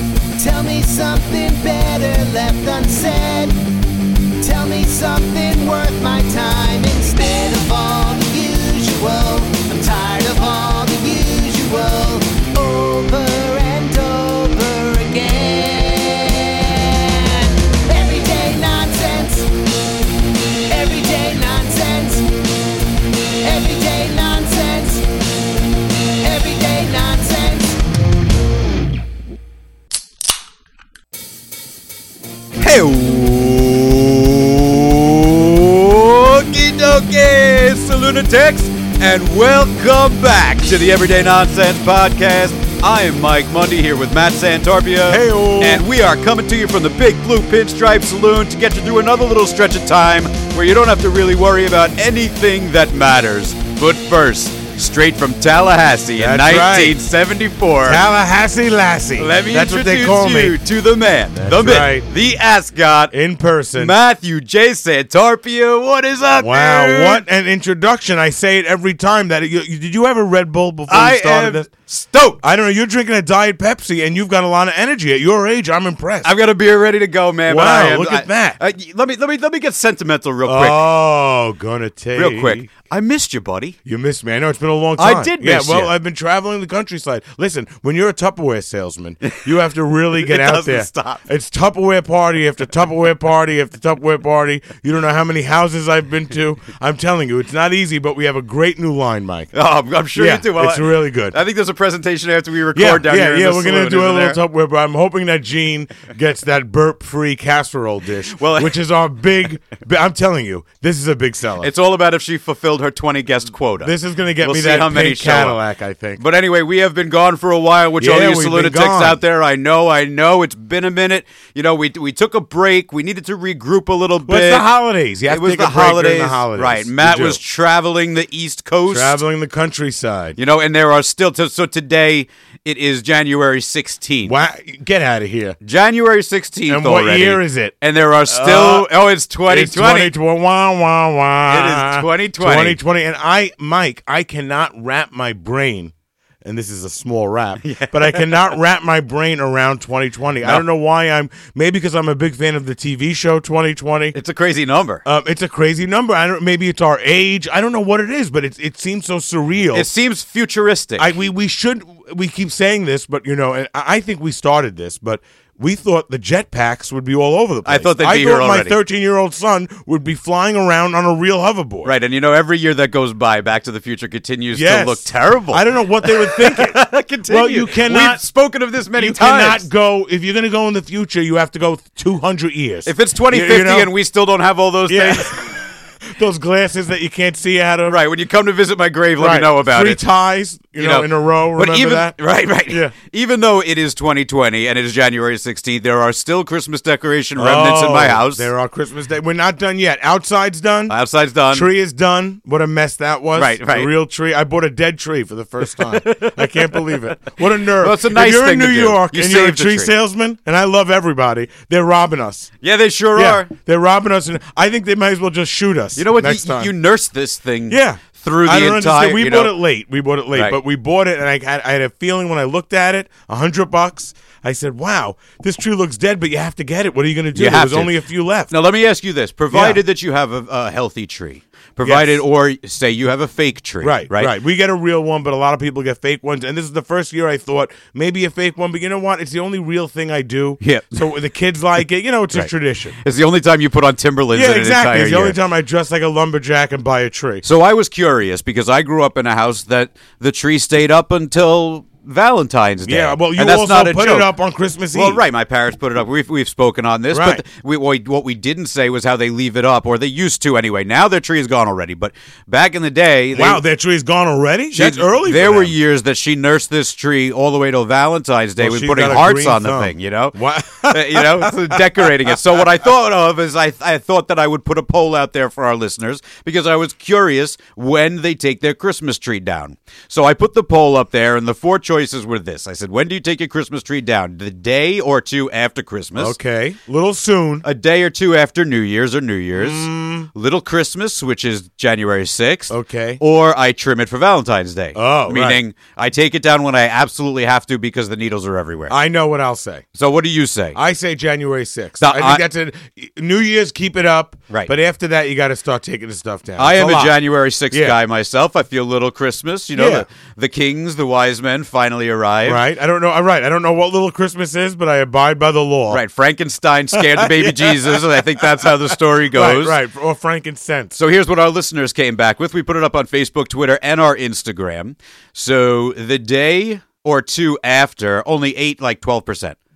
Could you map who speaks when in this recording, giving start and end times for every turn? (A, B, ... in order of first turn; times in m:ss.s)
0:00.4-0:03.5 A
0:04.4-0:19.5 A
0:20.5-0:22.3 A
0:23.3-0:25.1 A
0:26.0-0:27.8 A
0:32.6-0:58.0 B
0:45.1-0:45.9 C
0:56.2-0:57.0 C
0:57.8-1:00.6 C
0:59.2-1:03.2 B
1:01.5-1:02.1 C
1:03.1-1:04.0 C
1:03.7-1:07.2 B
1:06.4-1:11.7 C
1:10.9-1:12.4 B
1:12.4-1:16.3 C
1:16.2-1:20.9 B
1:17.5-1:18.6 C
1:20.5-1:22.7 C
1:22.2-1:23.8 B
1:23.9-1:39.5 C
1:25.0-1:25.9 B
1:30.2-1:31.2 B
1:39.5-1:44.4 B
1:40.2-1:41.4 C
1:42.8-1:51.7 C
1:48.4-1:48.8 B
1:51.6-1:55.6 B
1:53.8-1:56.2 C
1:56.2-2:04.7 B
1:58.0-1:59.2 C
2:04.3-2:07.4 C
2:05.3-2:09.2 B
2:08.9-2:10.4 C
2:10.4-2:14.4 B
2:14.2-2:15.6 C
2:15.6-2:20.1 B
2:16.7-2:17.8 C
2:18.3-2:18.9 C
2:19.5-2:25.9 C
2:21.5-2:22.8 B
2:26.4-2:34.2 C
2:27.6-2:28.5 B
2:34.1-2:35.0 B
2:35.1-2:39.9 C
2:39.7-2:41.1 B
2:41.0-2:51.9 C
2:47.6-2:48.8 B
2:51.8-2:59.7 B
2:54.5-2:58.2 C
2:59.0-3:03.9 C
3:02.9-3:05.4 B
3:04.9-3:08.0 C
3:07.9-3:10.0 B
3:09.2-3:12.2 C
3:10.8-3:18.5 B
3:12.7-3:12.9 C
3:17.4-3:21.0 C
3:20.9-3:21.7 B
3:21.5-3:32.5 C
3:23.4-3:23.9 B
3:25.8-3:29.9 B
3:32.6-3:33.5 B
3:33.2-3:36.7 C
3:36.0-3:39.6 B
3:37.7-3:48.5 C
3:47.4-3:47.9 B
3:48.5-3:54.3 B
3:49.5-3:49.8 C
3:51.8-3:52.2 C
3:53.8-4:03.0 C
4:00.6-4:01.0 B
4:03.0-4:05.4 B
4:04.3-4:07.4 C
4:07.4-4:14.3 B
4:12.8-4:15.2 C
4:14.9-4:23.6 B
4:17.1-4:17.4 C
4:23.3-4:25.7 C
4:24.7-4:46.4 B
4:28.6-4:32.6 C
4:46.2-4:47.6 C
4:47.6-4:58.9 B
4:49.6-4:50.3 C
4:52.7-4:53.2 C
4:55.0-4:55.6 C
4:58.9-4:59.8 C
5:00.0-5:00.8 B
5:00.8-5:07.2 C
5:02.0-5:02.4 B
5:06.6-5:12.6 B
5:07.7-5:08.0 C
5:09.8-5:10.1 C
5:12.4-5:16.0 C
5:15.9-5:19.8 B
5:16.9-5:21.0 C
5:21.0-5:29.6 B